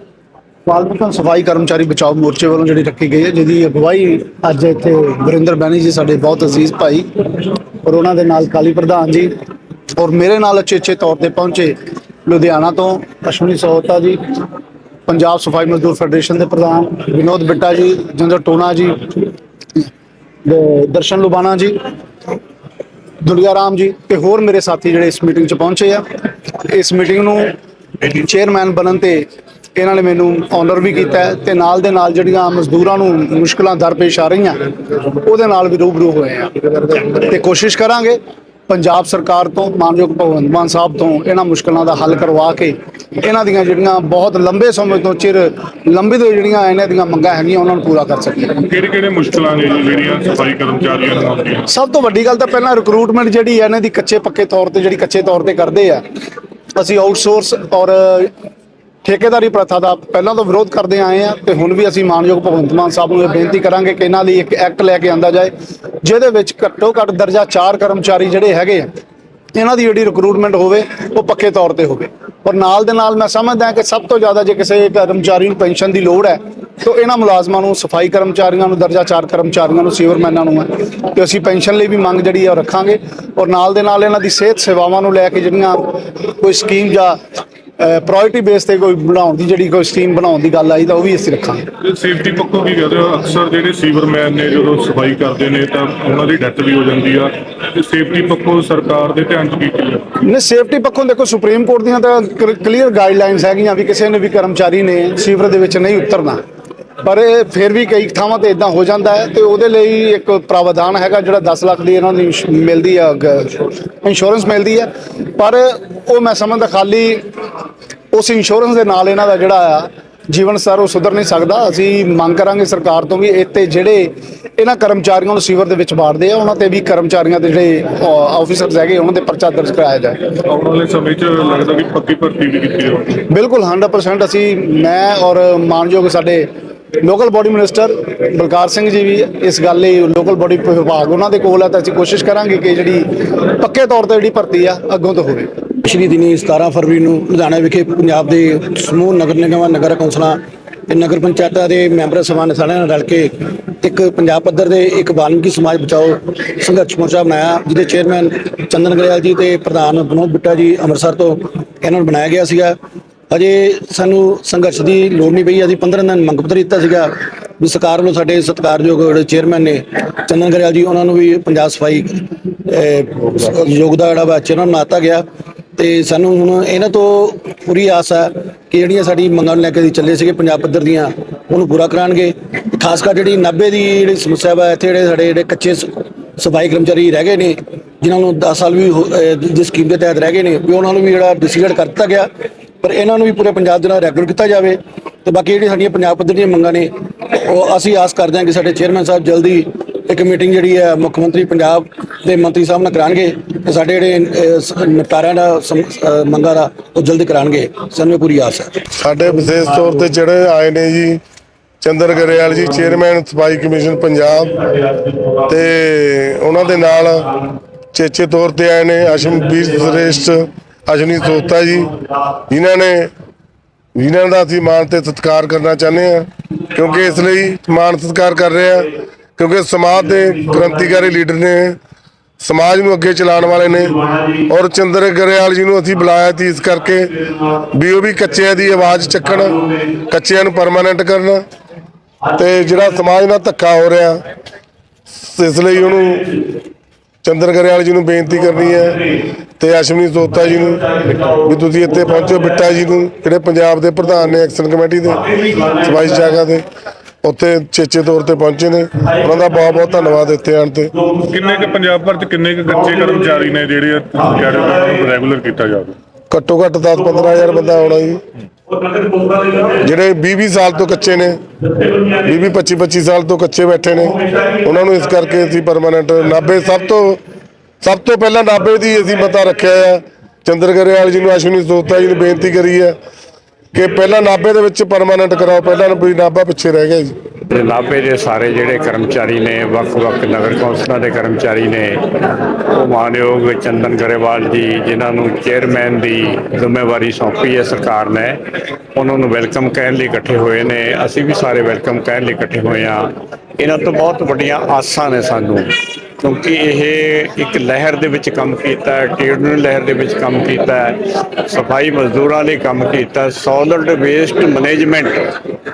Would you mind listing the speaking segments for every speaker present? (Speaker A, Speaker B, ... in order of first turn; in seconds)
Speaker A: 0.7-9.3, 10.0-14.2, 15.1-19.9, 20.4-21.8, 23.2-48.6, 51.7-56.0, 56.8-58.3, 59.0-65.5, 66.0-68.9, 69.5-87.2, 87.8-91.6, 100.2-106.4, 107.0-117.2, 118.1-130.2, 133.2-136.5, 137.0-145.5
Speaker B: 48.6-51.7, 91.8-100.1, 130.5-133.2, 261.2-266.0
Speaker C: 145.8-162.8, 163.3-175.2, 175.8-192.3, 192.8-208.8
Speaker D: 208.9-211.2, 211.8-214.6, 215.5-217.4, 217.9-222.0, 222.5-223.1, 224.0-231.8, 232.4-241.4, 242.3-244.2, 245.1-246.4, 247.2-256.6, 257.2-260.9, 266.3-268.2, 269.7-271.4, 272.1-277.2, 277.8-283.0, 283.7-287.1
Speaker E: 268.7-269.7, 287.5-298.4, 298.9-315.4